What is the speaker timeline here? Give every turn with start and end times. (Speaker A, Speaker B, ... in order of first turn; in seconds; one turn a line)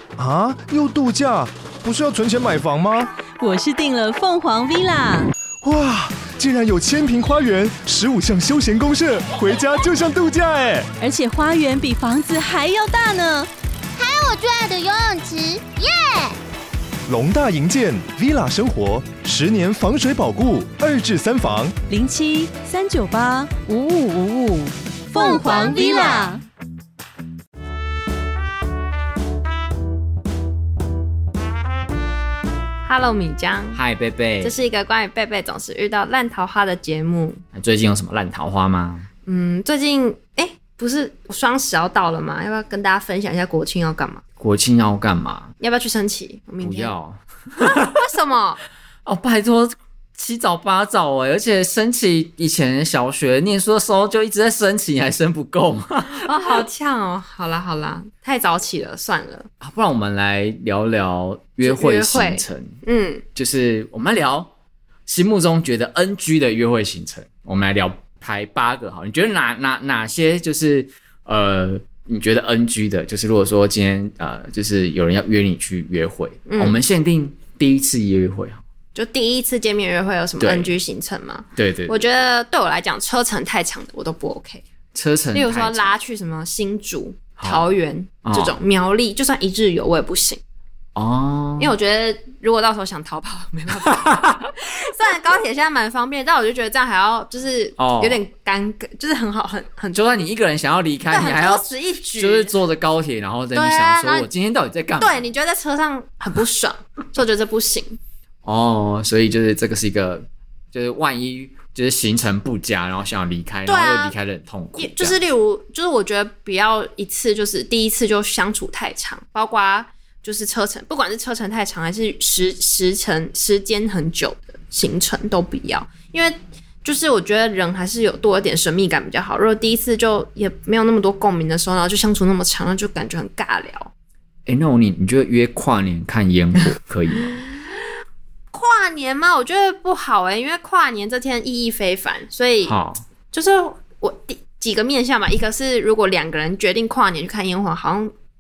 Speaker A: 0.2-3.1
Speaker B: 3.4-5.3
Speaker A: 5.6-10.9
Speaker B: 11.0-13.5
Speaker C: 14.0-16.4
Speaker A: 17.1-21.8
Speaker B: 21.9-26.4
Speaker C: 25.1-26.4
Speaker D: 32.9-33.8
Speaker E: 33.7-34.6
Speaker D: 34.4-37.4
Speaker E: 37.5-39.1
Speaker D: 39.3-44.2
Speaker E: 44.4-45.5
Speaker D: 45.6-46.9
Speaker E: 46.6-48.0
Speaker D: 47.6-48.6
Speaker E: 49.0-56.7
Speaker D: 56.1-59.5
Speaker E: 59.6-62.8
Speaker D: 61.6-63.2
Speaker E: 63.4-64.5
Speaker E: 65.1-78.6
Speaker D: 76.5-76.8
Speaker D: 78.9-84.6
Speaker E: 80.4-80.7
Speaker E: 81.6-82.3
Speaker E: 84.9-85.9
Speaker D: 85.3-90.4
Speaker E: 87.4-87.7
Speaker E: 88.2-88.6
Speaker E: 91.0-91.8
Speaker D: 91.6-100.0
Speaker E: 94.1-94.5
Speaker E: 97.8-98.2
Speaker E: 99.9-105.3
Speaker D: 101.1-102.6
Speaker D: 103.5-104.3
Speaker D: 105.0-108.0
Speaker E: 108.5-115.2
Speaker D: 113.7-114.2
Speaker D: 114.8-133.9
Speaker E: 134.5-137.4
Speaker D: 137.2-137.6
Speaker D: 138.5-142.8
Speaker E: 142.6-143.0
Speaker D: 143.3-148.1